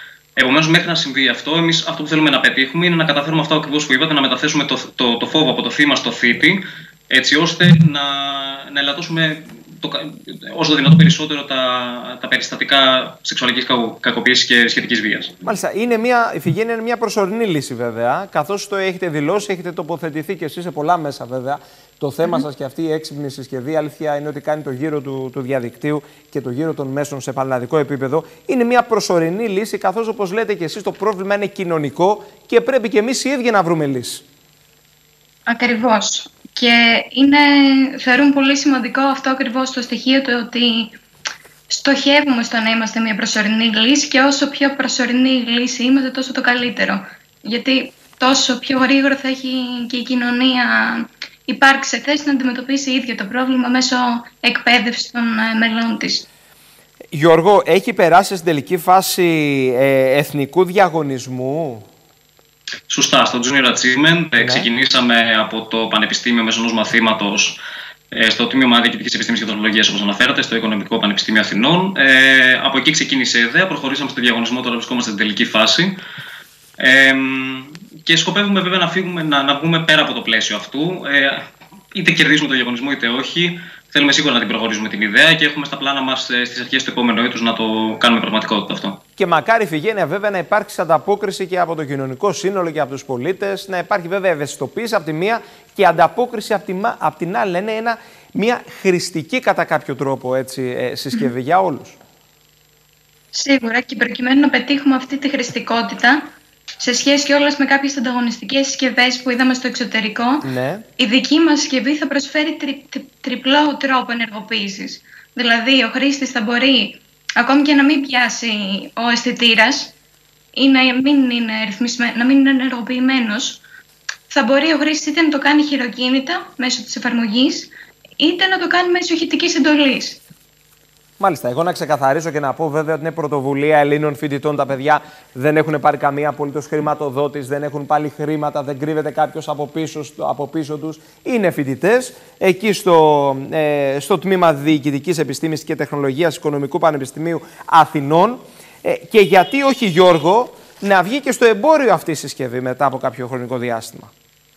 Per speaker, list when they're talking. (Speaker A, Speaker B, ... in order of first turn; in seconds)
Speaker A: 0.4-15.3, 62.9-76.0, 76.8-89.0
Speaker B: 15.4-34.2, 57.1-61.9, 64.4-64.7, 89.2-102.0, 110.4-110.8, 131.2-154.1
Speaker C: 35.5-41.0, 41.7-56.3, 103.3-110.5, 111.0-120.0, 120.5-123.6, 124.3-130.2